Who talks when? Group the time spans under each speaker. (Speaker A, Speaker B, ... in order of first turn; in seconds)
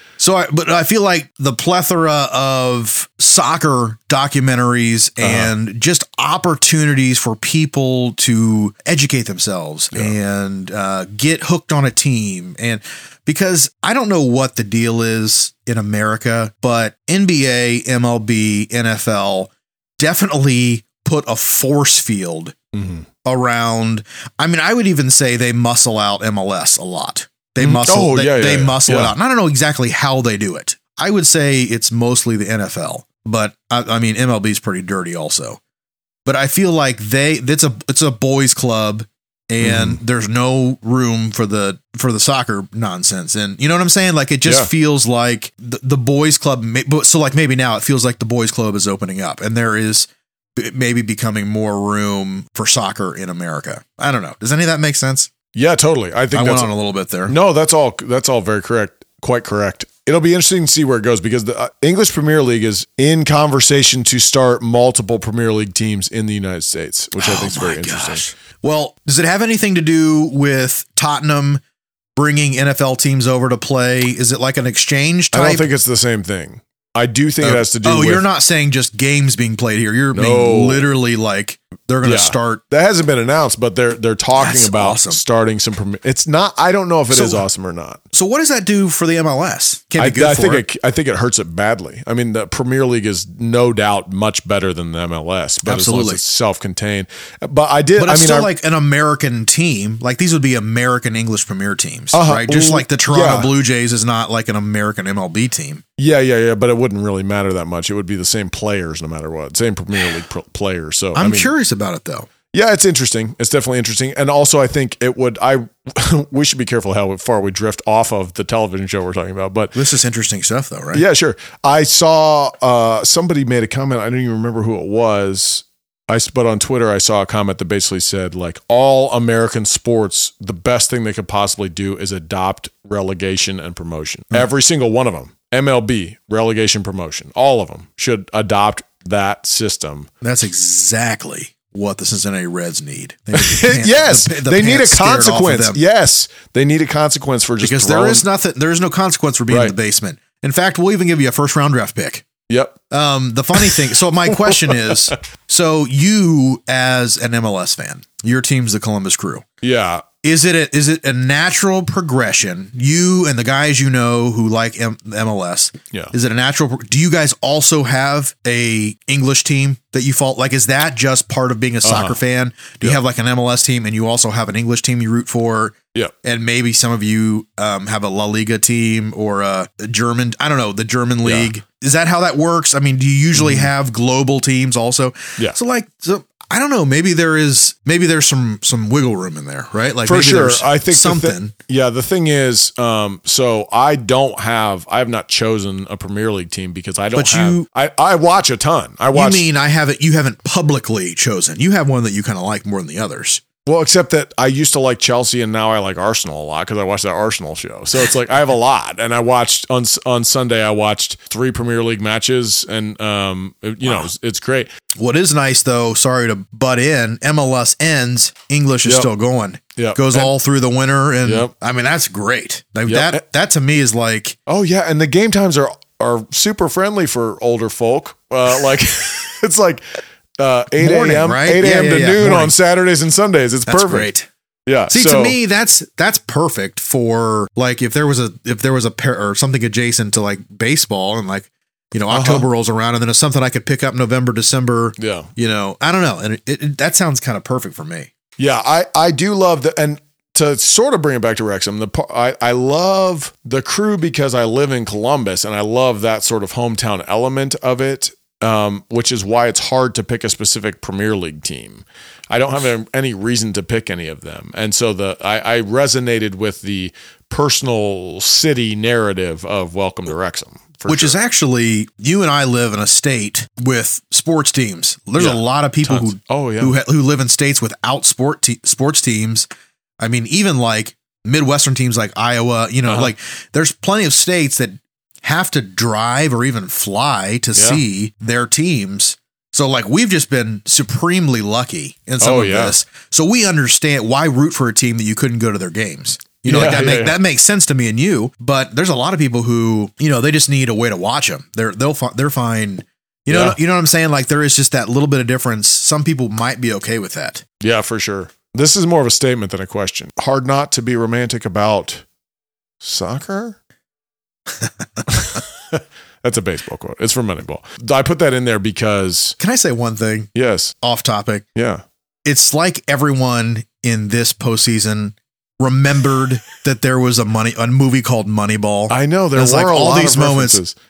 Speaker A: 0.2-22.5, 23.2-35.6, 36.2-55.3, 56.3-57.3, 67.2-71.6, 72.2-75.7, 77.4-82.6, 84.3-85.2, 87.1-87.4, 88.1-90.6, 95.6-96.2, 98.0-105.8, 111.1-112.3, 119.7-121.0, 140.2-145.8, 147.6-152.2, 152.9-159.4, 160.2-191.5, 197.1-197.7, 199.1-203.4, 215.0-224.4, 230.8-232.5, 233.7-234.3, 234.9-248.1, 270.9-279.4, 280.0-307.4, 314.6-315.0, 319.4-320.3, 320.8-321.4, 322.2-330.6
Speaker B: 5.2-5.5, 22.7-23.1, 27.6-29.1, 39.6-40.0, 44.4-44.7, 55.5-56.7, 57.3-68.2, 75.3-78.2, 80.1-80.9, 82.0-88.0, 90.0-98.5, 102.1-103.5, 106.0-111.5, 112.5-119.8, 120.9-140.1, 143.3-148.2, 149.5-149.7, 152.5-152.8, 153.5-155.2, 159.6-160.0, 171.8-172.2, 181.2-181.5, 183.3-183.7, 190.0-199.4, 203.6-214.7, 219.8-220.3, 221.2-221.5, 222.9-223.2, 224.5-234.1, 234.7-235.3, 242.1-242.5, 245.0-245.3, 248.4-271.2, 275.2-276.8, 287.6-287.8, 292.2-292.7, 296.4-297.1, 303.3-303.6, 307.6-312.0, 312.8-313.6, 315.1-319.4, 320.3-320.7, 321.5-321.8, 328.9-330.7